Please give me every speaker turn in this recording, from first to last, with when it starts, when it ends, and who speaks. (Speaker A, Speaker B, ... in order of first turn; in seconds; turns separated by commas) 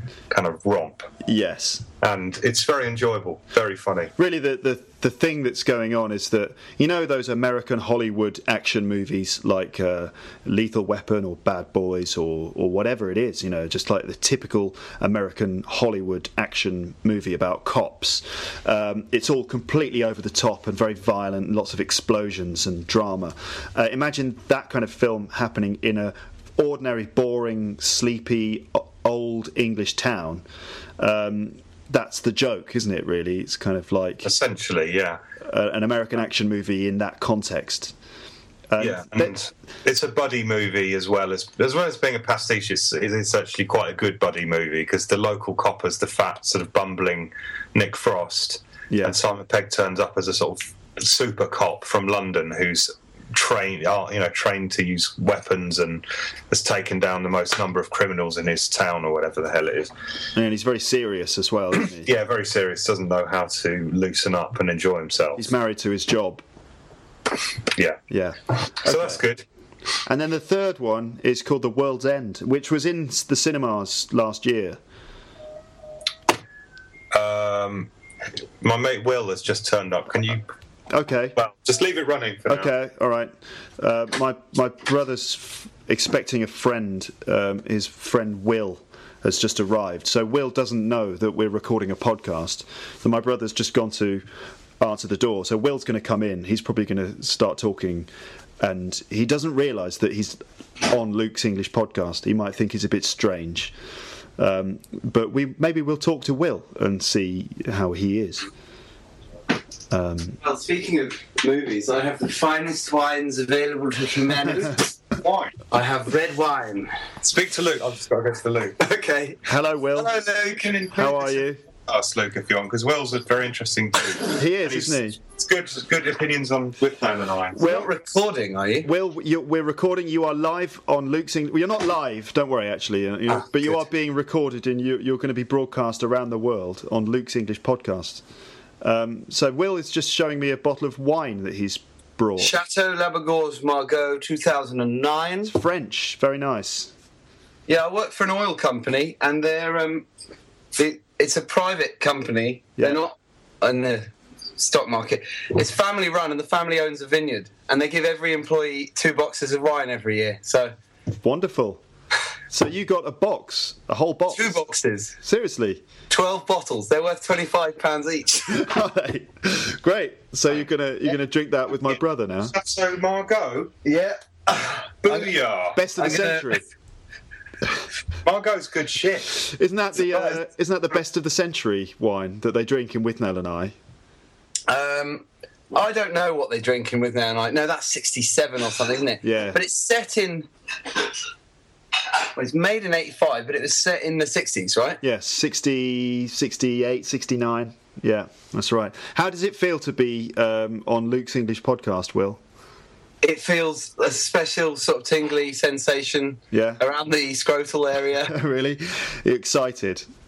Speaker A: 0.3-1.1, Speaker B: 1.2-1.9, Speaker A: 2.0-4.1, Speaker B: 4.2-30.4, Speaker B: 31.0-34.3, Speaker A: 34.2-35.2, Speaker B: 35.4-37.9, Speaker B: 38.7-39.4, Speaker A: 38.8-59.9, Speaker B: 48.9-49.2, Speaker B: 60.3-62.1, Speaker A: 62.0-65.5, Speaker B: 65.4-66.4, Speaker A: 67.7-68.0, Speaker B: 68.1-69.2, Speaker A: 68.8-69.4, Speaker B: 70.0-74.8, Speaker A: 77.1-77.9, Speaker A: 78.6-80.5, Speaker B: 80.9-81.3, Speaker A: 81.3-82.7, Speaker B: 82.5-94.2, Speaker B: 94.8-98.1, Speaker B: 98.6-103.7, Speaker B: 104.4-108.5, Speaker B: 109.9-110.4, Speaker C: 110.4-114.8, Speaker A: 115.1-115.6, Speaker C: 115.7-116.9, Speaker A: 117.2-118.8, Speaker C: 118.8-119.4, Speaker B: 119.4-120.1, Speaker A: 119.9-127.6, Speaker B: 121.0-121.6, Speaker B: 124.3-125.2, Speaker B: 127.6-127.9, Speaker C: 127.6-128.9, Speaker B: 128.8-138.2, Speaker B: 138.8-142.5, Speaker C: 142.4-145.5, Speaker B: 145.4-146.9, Speaker C: 147.7-150.1, Speaker C: 150.7-160.7, Speaker B: 161.2-161.8, Speaker B: 162.5-164.6, Speaker C: 164.3-165.2, Speaker B: 165.2-165.8, Speaker C: 166.1-168.6, Speaker B: 168.5-172.5, Speaker A: 172.5-173.7, Speaker C: 173.8-175.3, Speaker A: 175.0-175.8, Speaker B: 175.7-176.6, Speaker C: 176.0-176.6, Speaker A: 178.2-179.4, Speaker B: 179.4-183.7, Speaker C: 180.1-180.3, Speaker C: 184.7-190.5, Speaker B: 189.2-189.6, Speaker C: 192.3-195.0, Speaker B: 195.0-202.4, Speaker C: 203.2-208.3, Speaker B: 206.5-206.8, Speaker B: 208.3-210.1